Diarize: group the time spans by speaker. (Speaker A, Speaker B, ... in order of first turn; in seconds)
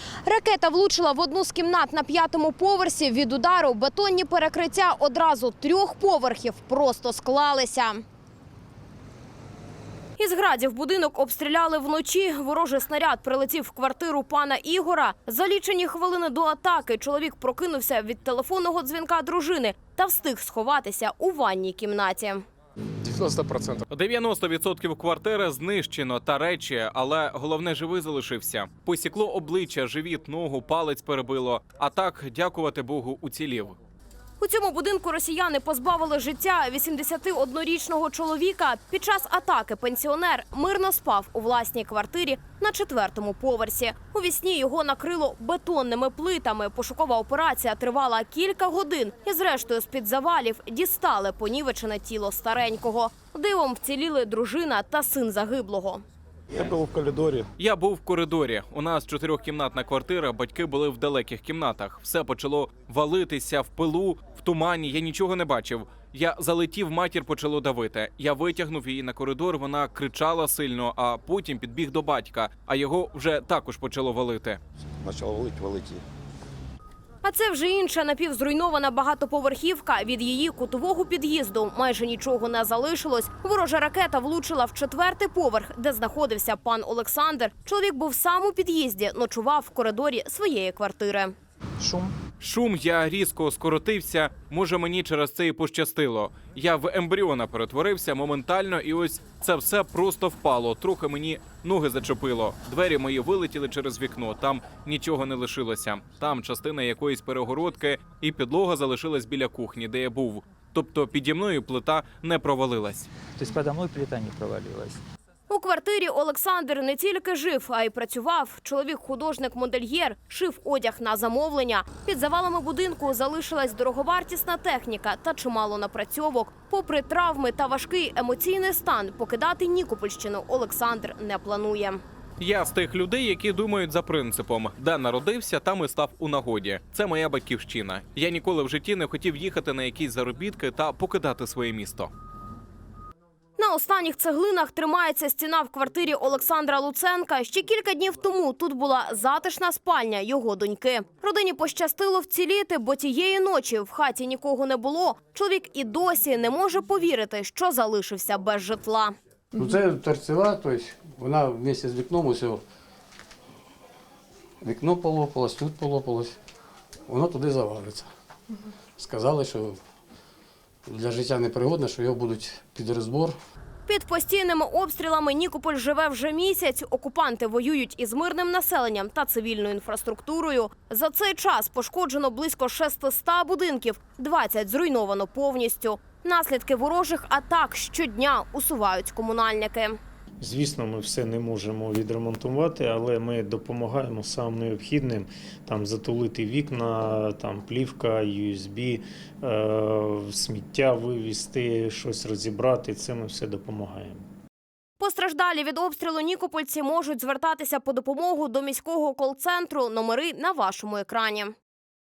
Speaker A: 0.2-8.0, 10.2-22.4, 34.4-56.0, 77.2-91.3, 115.5-132.0, 143.6-159.1, 173.8-190.0, 205.0-211.5
Speaker B: 23.9-33.8, 57.6-74.6, 92.4-113.1, 132.4-142.1
Speaker C: 56.5-57.5, 75.0-76.0
Speaker D: 91.8-92.1, 113.3-115.0
Speaker E: 159.5-162.6, 164.6-166.3, 167.1-168.1, 169.0-169.8, 170.8-173.3
Speaker F: 190.4-204.2